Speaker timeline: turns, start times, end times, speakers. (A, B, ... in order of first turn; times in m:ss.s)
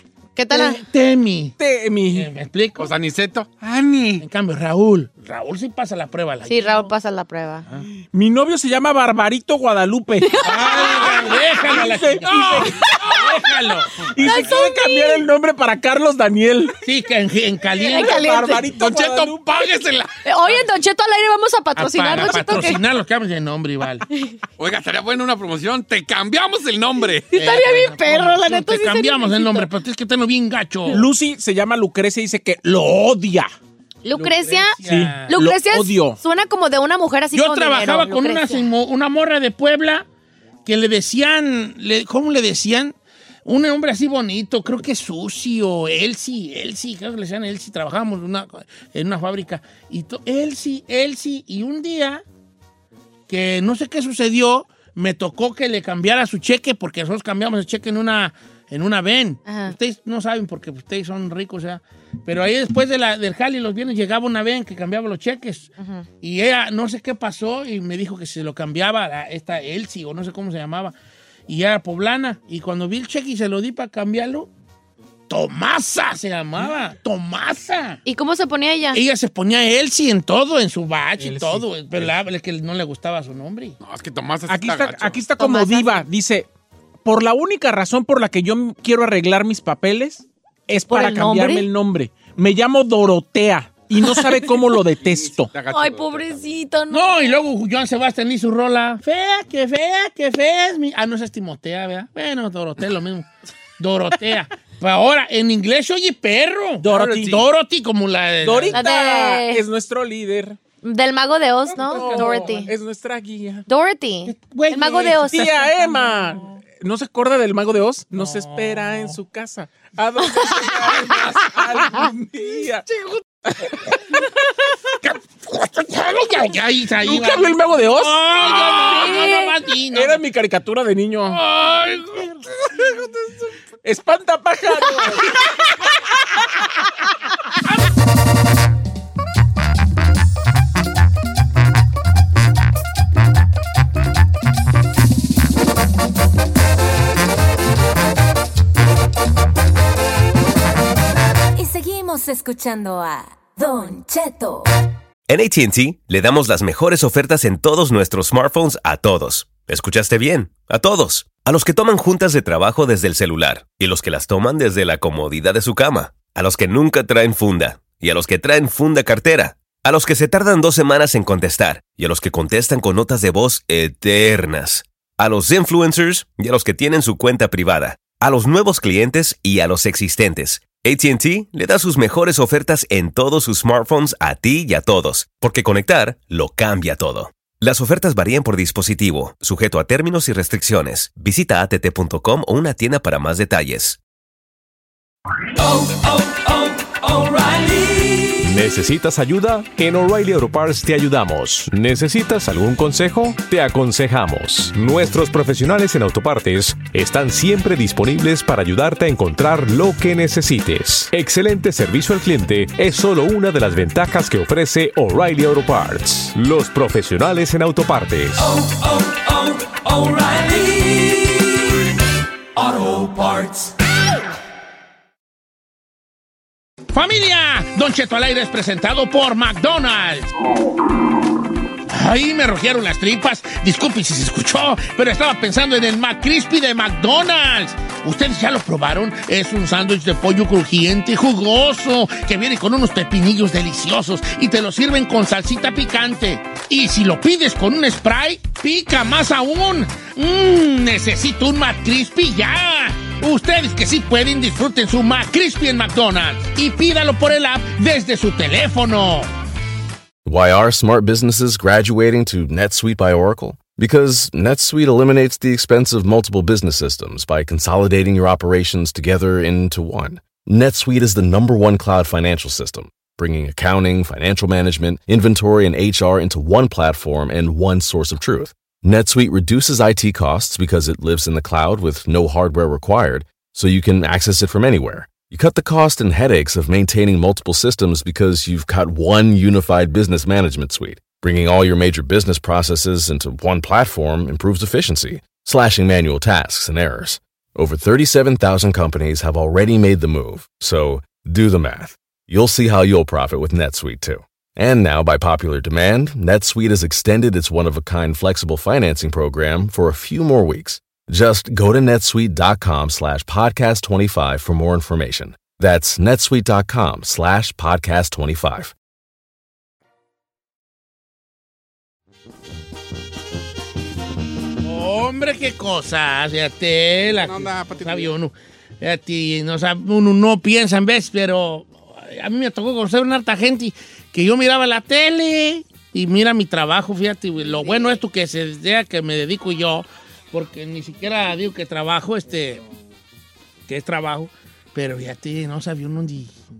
0:00.4-0:00.8 A
0:00.5-0:01.6 B
0:01.6-0:02.3 C
0:02.1-0:02.9 B
0:02.8-0:04.2 D
0:04.2-0:06.9 B
0:06.5-0:07.6 A
0:08.1-0:12.8 C
0:10.2-0:11.4 A
0:10.4-0:14.5 B
0:12.3-0:13.2 D
0:14.1-0:16.8 C
0:14.2-0:15.2 A
0:16.8-0:18.1 B
0:17.8-0:18.8 A
0:17.9-0:19.4 C
0:18.7-0:20.1 D
0:20.2-0:22.8 A
0:21.8-0:24.0 B
0:24.1-0:24.4 A
0:24.6-0:27.5 D
0:27.3-0:29.7 A
0:27.4-0:31.0 B
0:30.9-0:33.5 C
0:34.0-0:38.7 A
0:34.1-0:35.4 B
0:34.9-0:36.2 C
0:37.3-0:40.0 B
0:40.6-0:42.9 B
0:43.4-0:52.2 B
0:53.3-1:10.9 B
0:59.4-0:59.7 A
1:05.8-1:06.0 A
1:11.5-1:14.5 B
1:15.3-1:18.0 B
1:18.0-1:19.0 A
1:18.9-1:23.8 B
1:21.2-1:22.2 C
1:23.8-1:25.2 D
1:24.5-1:26.5 C
1:25.4-1:26.0 A
1:27.0-1:35.5 C
1:30.9-1:31.7 A
1:34.0-1:34.4 A
1:35.1-1:36.5 D
1:35.7-1:37.4 A
1:36.9-1:43.2 B
1:43.8-1:48.8 B
1:46.8-1:47.4 C
1:48.4-1:50.6 C
1:48.7-1:49.6 A
1:50.8-1:52.7 A
1:51.8-1:53.6 C
1:52.0-1:52.2 B
1:53.7-1:55.8 A
1:54.2-1:55.5 B
1:55.3-2:02.8 C
1:58.2-1:59.1 B
2:05.0-2:10.2 B
2:07.0-2:08.2 C
2:08.4-2:09.1 D
2:08.9-2:09.5 A
2:09.9-2:11.4 C
2:11.4-2:12.2 D
2:12.8-2:13.3 D
2:13.8-2:15.4 C
2:31.6-2:34.7 E
2:35.3-3:14.0 F
3:17.1-3:17.5 F
3:18.4-3:38.5 G
3:46.9-3:50.3 B
3:51.9-4:19.3 B
4:20.2-5:18.7 H
5:24.6-5:42.6 B
5:27.1-5:28.1 D
5:43.7-5:46.4 B